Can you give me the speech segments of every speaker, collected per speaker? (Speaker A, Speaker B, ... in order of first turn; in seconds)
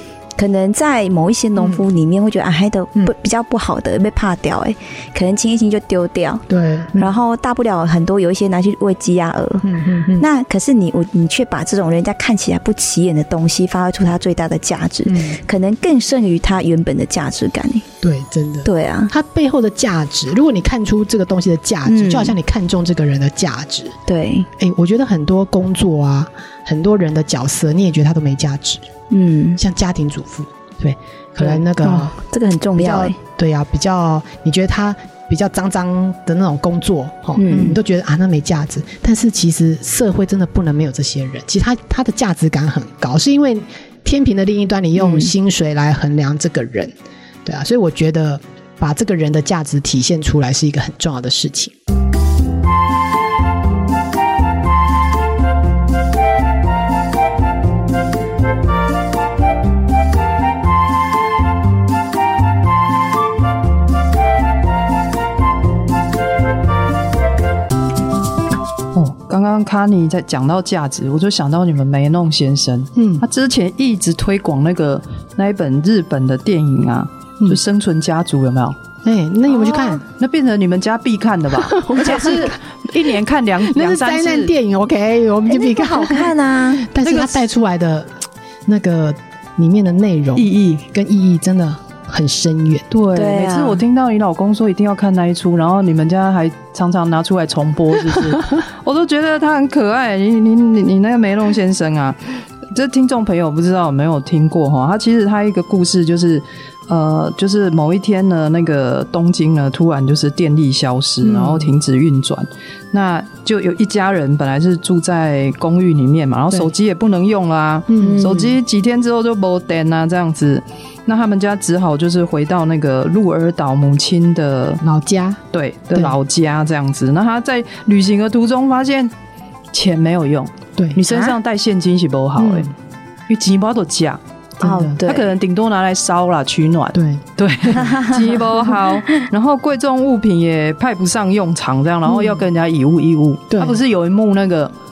Speaker A: 0.4-6.4, 7.0-17.9, 18.6-19.1, 21.9-22.3, 24.1-24.5, 29.1-29.6, 31.4-33.1, 37.4-37.8, 45.0-45.3, 85.5-86.9, 93.1-93.8, 118.0-118.5, 134.6-135.3, 137.8-138.2
Speaker B: 1.6-1.8, 6.5-7.1, 9.6-10.2, 18.0-24.0, 24.6-28.8, 29.6-32.2, 32.8-46.9, 47.4-51.7, 72.9-73.2, 79.0-80.0, 81.5-88.1, 88.7-92.8, 111.2-111.7, 117.9-118.5, 124.8-125.4, 130.8-131.0, 132.4-132.7, 134.6-135.0, 136.9-137.2, 142.1-142.4, 143.5-143.8
Speaker C: 68.9-78.8, 79.6-84.5, 87.0-87.4, 90.3-90.8, 92.9-124.8, 125.5-129.1, 129.7-132.7, 133.3-134.2, 135.0-144.7